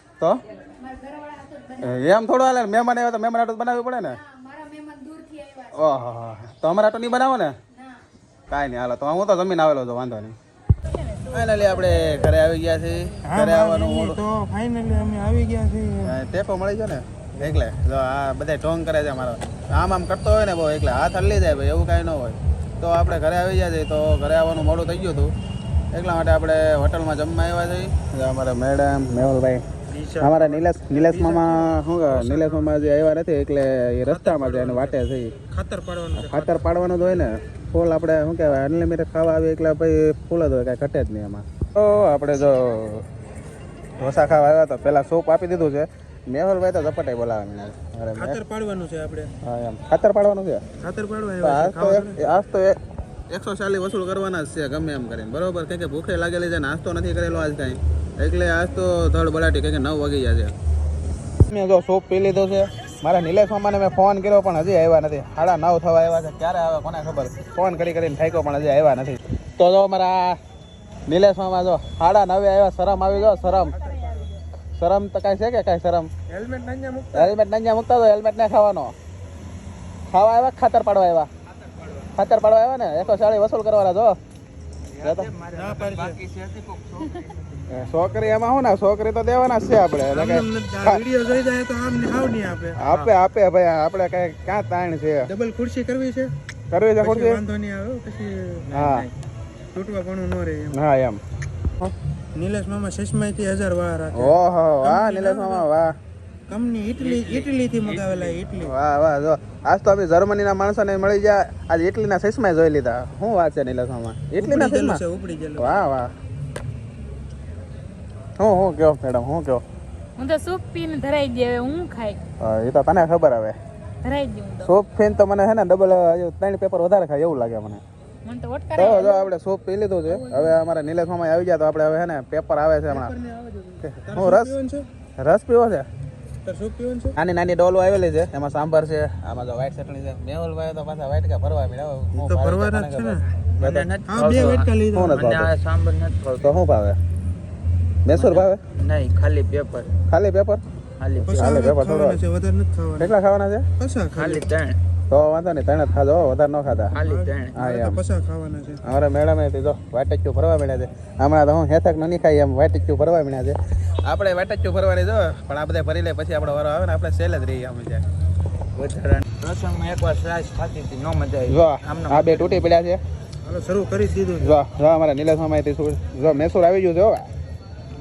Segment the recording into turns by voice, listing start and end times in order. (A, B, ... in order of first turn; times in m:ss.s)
0:00.6-0:01.9 A
0:01.8-0:04.2 B
0:04.2-0:05.7 A
0:05.7-0:07.5 B
0:08.5-0:10.4 B
0:10.9-0:12.3 A
0:11.3-0:14.2 B
0:13.2-0:16.2 C
0:16.0-0:25.3 B
0:25.9-0:29.6 B
0:29.9-0:32.7 C
0:30.2-0:35.3 B
0:34.1-0:36.7 C
0:36.2-0:43.0 B
0:44.0-0:48.4 B
0:48.1-0:49.3 C
0:49.4-0:50.6 B
0:50.8-0:52.2 C
0:51.4-0:52.8 B
0:53.3-1:00.5 B
1:01.5-1:10.4 B
1:11.1-1:13.8 B
1:13.8-1:14.2 C
1:14.8-1:16.1 B
1:16.3-1:17.3 C
1:17.1-1:18.9 B
1:20.1-1:21.3 B
1:21.6-1:22.1 D
1:22.2-1:24.2 B
1:24.9-1:27.4 D
1:25.0-1:25.3 B
1:25.5-1:26.2 C
1:27.7-1:31.0 B
1:30.0-1:32.8 C
1:32.8-1:35.3 B
1:35.2-1:36.3 C
1:36.7-1:37.4 B
1:37.0-1:38.7 C
1:38.7-1:39.1 D
1:38.7-1:39.1 B
1:39.7-1:40.8 C
1:40.7-1:41.2 B
1:42.3-1:45.6 C
1:44.1-1:45.9 B
1:46.5-1:48.7 C
1:47.0-1:48.4 D
1:48.6-1:55.0 B
1:54.4-1:55.8 C
1:55.6-1:56.1 B
1:58.4-1:59.6 B
2:00.2-2:02.2 A
2:02.4-2:03.6 B
2:04.0-2:04.7 A
2:04.6-2:07.8 B
2:08.2-2:09.3 A
2:08.8-2:13.1 B
2:10.1-2:10.6 A
2:12.9-2:14.9 C
2:13.8-2:14.5 B
2:15.2-2:15.9 B
2:16.4-2:17.1 C
2:17.2-2:23.8 B
2:22.2-2:25.2 C
2:23.6-2:26.5 D
2:24.9-2:25.5 B
2:26.4-2:27.0 B
2:28.0-2:28.6 B
2:28.1-2:29.9 D
2:30.1-2:30.6 B
2:31.0-2:31.5 D
2:31.2-2:33.1 C
2:31.3-2:32.2 B
2:33.0-2:33.7 B
2:33.8-2:34.5 C
2:34.1-2:34.8 D
2:35.1-2:37.0 B
2:36.9-2:37.6 D
2:36.9-2:38.8 C
2:37.5-2:38.0 B
2:38.8-2:48.0 B
2:48.7-2:52.7 D
2:51.5-2:53.0 B
2:53.4-2:54.5 C
2:54.4-2:57.3 B